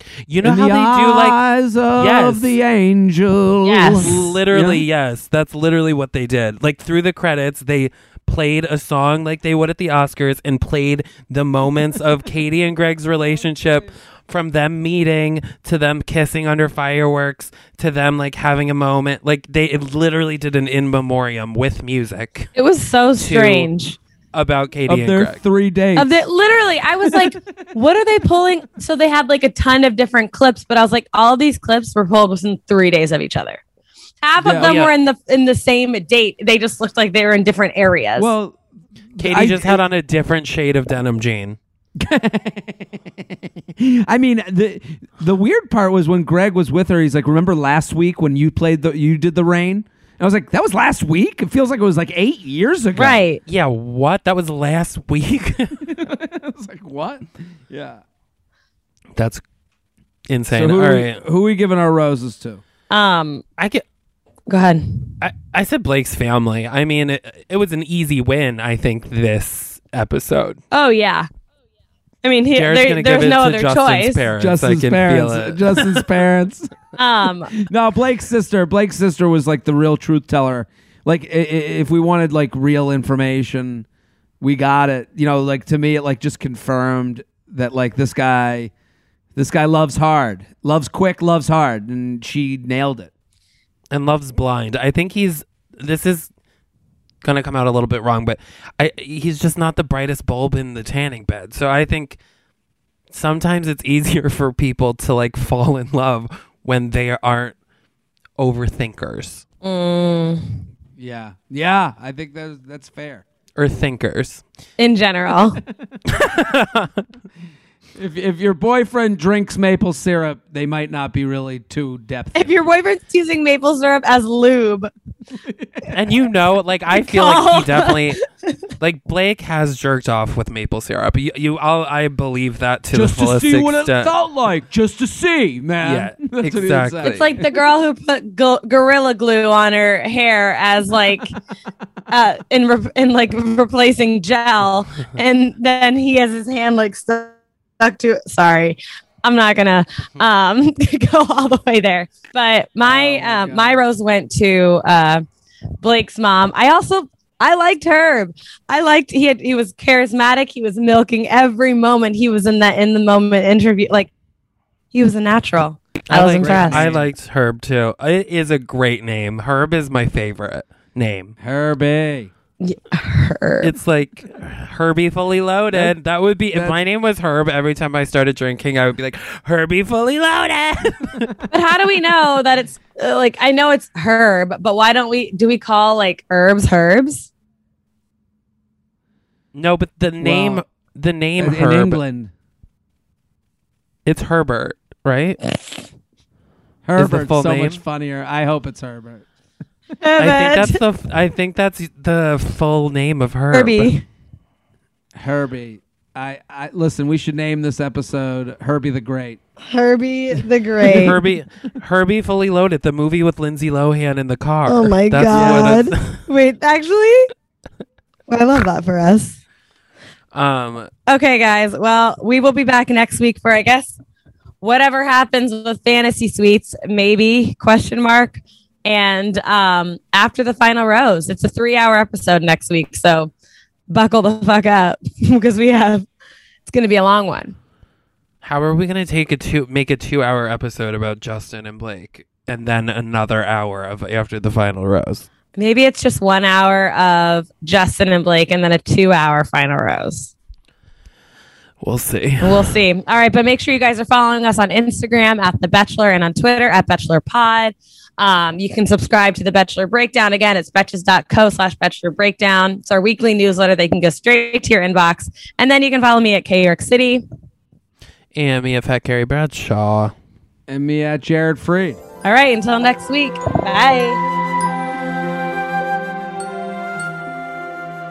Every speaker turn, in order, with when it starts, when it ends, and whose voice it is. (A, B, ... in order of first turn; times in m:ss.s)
0:00.3-0:01.4 A
0:00.4-0:04.8 B
0:02.0-0:02.6 A
0:03.6-0:04.2 C
0:04.0-0:22.5 A
0:22.6-0:24.0 C
0:23.2-0:23.7 A
0:24.3-0:25.4 A
0:24.9-0:26.1 B
0:26.0-0:33.6 C
0:27.1-0:27.7 B
0:34.2-0:38.3 C
0:34.4-0:34.8 B
0:34.6-0:34.9 A
0:38.2-0:38.6 B
0:39.1-0:39.8 B
0:39.2-0:41.6 A
0:42.0-0:53.2 B
0:53.0-0:53.4 C
0:53.5-0:56.0 A
0:55.9-0:58.0 B
0:59.2-0:59.4 A
1:00.3-1:01.2 A
1:00.5-1:02.6 B
1:02.9-1:03.4 C
1:03.6-1:03.8 A
1:04.5-1:05.2 C
1:05.2-1:10.6 A
1:10.7-1:11.3 C
1:12.2-1:14.3 C
1:12.6-1:16.0 A
1:14.4-1:16.7 B
1:17.0-1:17.5 C
1:17.6-1:23.9 B
1:24.4-1:28.7 B
1:29.4-1:33.1 B
1:33.9-1:36.3 A
1:37.2-1:42.2 A
1:43.1-1:47.6 A
1:48.4-1:49.5 A
1:49.6-1:50.6 C
1:51.0-1:53.2 B
1:53.6-1:54.4 A
1:54.8-1:55.6 C
1:56.1-1:57.1 A
1:58.0-2:02.5 B
2:02.4-2:04.9 C
2:05.4-2:05.9 B
2:05.9-2:08.2 A
2:06.9-2:08.5 C
2:08.8-2:14.1 A
2:12.9-2:17.5 B
2:15.8-2:17.3 A
2:17.0-2:21.4 C
2:22.1-2:35.2 C
2:32.8-2:33.8 B
2:35.8-2:44.1 C
2:44.9-2:46.9 C
2:46.1-2:51.4 A
2:46.2-2:47.1 B
2:51.4-2:52.3 B
2:52.6-2:53.7 C
2:53.6-3:01.3 A
2:56.5-2:56.8 B
3:01.5-3:07.3 C
3:09.6-3:12.0 A
3:10.2-3:10.6 B
3:11.4-3:12.3 B
3:14.1-3:15.4 A
3:16.8-3:19.3 B
3:17.0-3:17.8 A
3:20.0-3:20.8 C
3:20.2-3:23.9 A
3:23.5-3:24.1 C
3:25.2-3:29.4 B
3:29.7-3:31.2 C
3:30.8-3:36.2 A
3:34.7-3:37.3 C
3:35.3-3:35.8 B
3:38.3-3:39.4 C
3:40.3-3:40.9 A
3:41.1-3:44.0 C
3:44.6-3:53.3 C
3:53.9-3:56.1 C
3:56.7-3:57.6 C
3:58.4-4:05.3 A
4:05.5-4:10.3 C
4:11.8-4:12.8 A
4:12.4-4:27.2 C
4:28.3-4:30.1 A
4:30.7-4:32.0 B
4:32.2-4:34.2 C